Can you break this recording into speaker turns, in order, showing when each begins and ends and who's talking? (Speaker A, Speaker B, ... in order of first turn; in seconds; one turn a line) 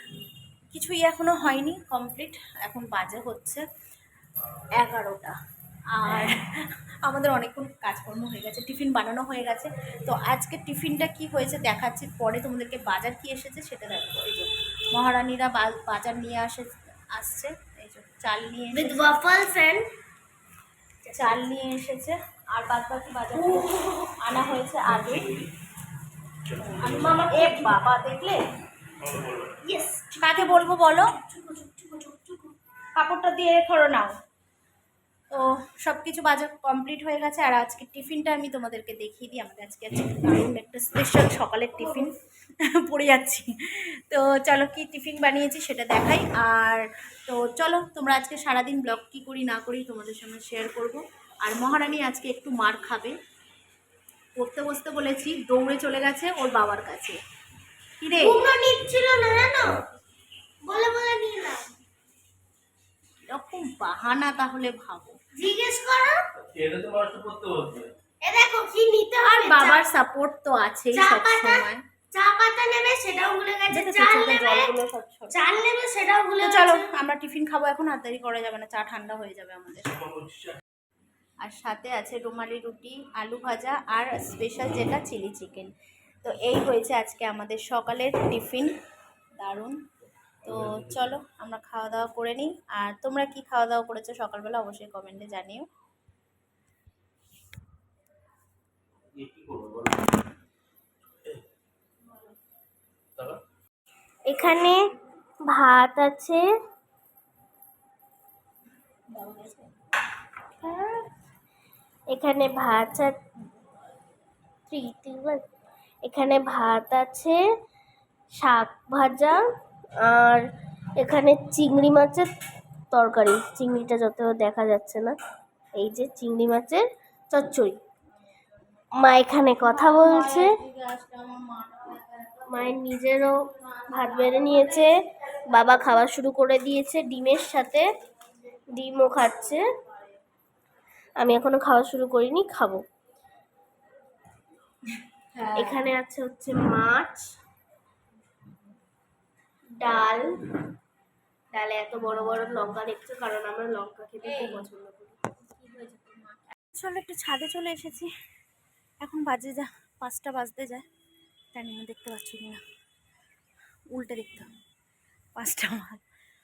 Speaker A: 0.7-3.6
Speaker A: 4.8-5.3
Speaker A: 5.9-19.2
Speaker B: 18.7-19.9
Speaker B: 21.0-21.4
Speaker A: 21.1-25.5
Speaker B: 23.3-24.0
Speaker A: 26.6-28.4
Speaker B: 26.7-27.7
Speaker B: 29.6-30.6
Speaker A: 30.2-31.1
Speaker B: 31.2-32.5
Speaker A: 33.0-34.1
Speaker A: 35.3-53.1
Speaker A: 54.4-57.2
Speaker A: 58.0-58.5
Speaker B: 58.2-59.8
Speaker B: 60.7-61.7
Speaker A: 63.3-65.2
Speaker B: 65.3-66.2
Speaker C: 66.5-67.9
Speaker B: 68.2-69.8
Speaker A: 69.4-71.8
Speaker B: 70.9-74.7
Speaker A: 73.7-75.3
Speaker B: 75.3-76.8
Speaker A: 76.4-80.1
Speaker A: 81.4-88.7
Speaker A: 89.4-89.8
Speaker A: 90.4-95.7
Speaker C: 99.1-100.0
Speaker B: 104.3-104.8
Speaker B: 105.5-106.4
Speaker A: 109.1-109.7
Speaker B: 110.6-111.0
Speaker B: 112.1-113.2
Speaker B: 114.7-115.4
Speaker B: 116.0-117.3
Speaker B: 118.4-119.4
Speaker B: 120.0-120.4
Speaker B: 121.0-122.3
Speaker B: 122.9-125.1
Speaker B: 125.8-127.8
Speaker A: 128.6-128.8
Speaker B: 129.0-130.5
Speaker A: 129.6-134.9
Speaker B: 132.5-133.3
Speaker B: 133.9-134.9
Speaker B: 135.5-137.8
Speaker B: 138.7-139.6
Speaker B: 141.2-142.8
Speaker A: 145.2-145.9
Speaker B: 145.5-147.2
Speaker B: 149.8-150.3
Speaker B: 151.5-155.2
Speaker A: 154.3-154.6
Speaker A: 155.7-156.1
Speaker B: 155.8-156.2
Speaker A: 156.7-158.1
Speaker A: 159.0-160.8
Speaker A: 161.5-162.6
Speaker A: 163.9-164.5
Speaker A: 165.3-166.0